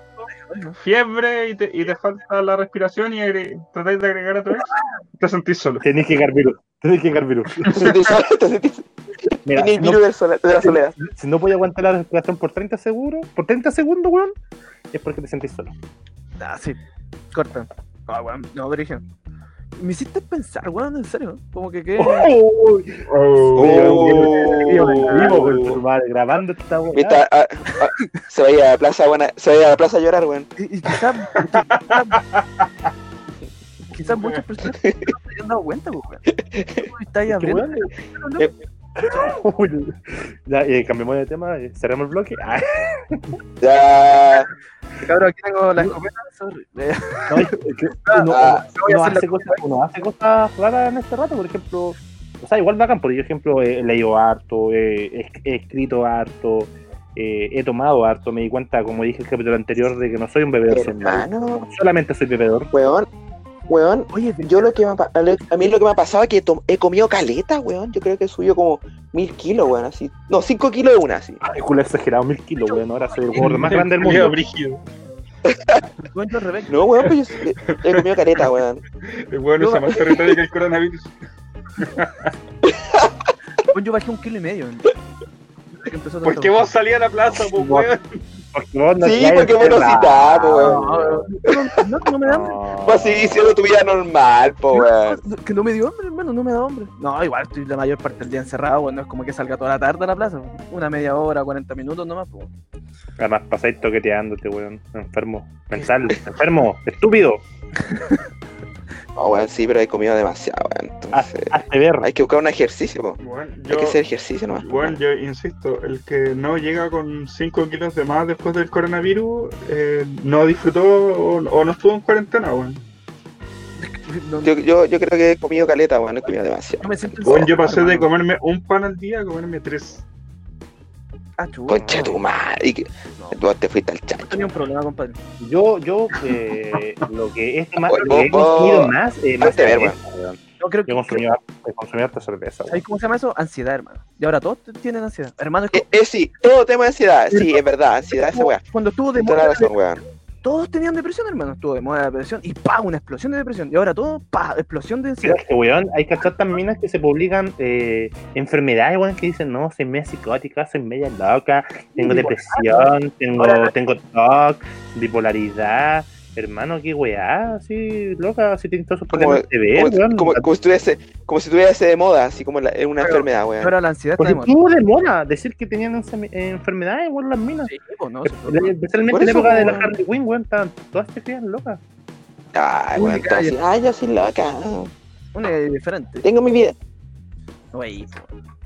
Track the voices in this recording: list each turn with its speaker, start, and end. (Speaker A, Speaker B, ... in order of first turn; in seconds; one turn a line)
Speaker A: 0.4-0.8
Speaker B: 0.8-5.8
Speaker C: 5.8-8.0
Speaker D: 7.7-10.9
Speaker C: 9.4-14.3
Speaker C: 14.9-15.7
Speaker A: 16.4-16.8
Speaker A: 17.3-19.0
Speaker A: 19.8-22.3
Speaker C: 22.0-27.2
Speaker B: 23.1-24.4
Speaker D: 23.6-25.8
Speaker A: 24.6-25.4
Speaker D: 26.9-30.5
Speaker A: 30.6-32.2
Speaker B: 31.4-32.4
Speaker A: 33.9-36.2
Speaker B: 34.0-34.4
Speaker D: 34.8-35.1
Speaker D: 36.4-36.9
Speaker A: 36.8-38.5
Speaker C: 37.3-37.9
Speaker C: 39.1-43.4
Speaker D: 43.6-44.5
Speaker A: 45.0-47.5
Speaker C: 47.3-62.7
Speaker A: 48.0-49.6
Speaker D: 48.3-48.6
Speaker D: 60.7-61.7
Speaker D: 62.7-63.1
Speaker D: 63.7-71.4
Speaker A: 64.1-64.7
Speaker C: 71.4-74.4
Speaker A: 72.6-73.9
Speaker B: 73.3-74.8
Speaker D: 75.5-75.8
Speaker A: 76.1-76.8
Speaker D: 76.7-78.8
Speaker B: 77.7-78.0
Speaker B: 79.1-81.1
Speaker A: 79.6-80.0
Speaker B: 81.8-82.3
Speaker D: 82.6-83.1
Speaker A: 83.7-84.9
Speaker A: 85.7-86.6
Speaker B: 86.2-88.2
Speaker C: 87.5-87.9
Speaker C: 88.5-91.3
Speaker D: 89.0-90.8
Speaker A: 90.6-92.6
Speaker C: 92.2-93.5
Speaker D: 92.8-95.2
Speaker A: 94.7-102.5
Speaker C: 103.2-107.4
Speaker A: 107.8-108.2
Speaker D: 109.2-113.2
Speaker C: 111.1-112.1
Speaker B: 113.2-122.8
Speaker D: 113.7-115.0
Speaker A: 123.8-124.5
Speaker D: 124.4-127.5
Speaker A: 126.8-128.1
Speaker B: 127.2-130.0
Speaker A: 131.4-132.2
Speaker D: 131.7-134.4
Speaker C: 131.8-132.2
Speaker A: 134.2-135.2
Speaker C: 135.4-142.8
Speaker D: 137.9-139.9
Speaker A: 140.6-141.2
Speaker A: 142.7-145.8
Speaker D: 145.7-148.6
Speaker A: 147.3-147.6
Speaker A: 148.1-149.7
Speaker D: 149.2-150.0
Speaker A: 150.4-155.4
Speaker C: 155.2-170.5
Speaker A: 161.9-163.7
Speaker D: 169.1-173.7
Speaker A: 173.0-174.5
Speaker C: 174.2-177.7
Speaker A: 177.6-178.7
Speaker C: 178.2-181.8
Speaker D: 179.1-179.9
Speaker D: 182.5-184.9
Speaker A: 182.9-183.6
Speaker A: 185.3-186.2
Speaker D: 186.2-186.8
Speaker A: 187.7-188.3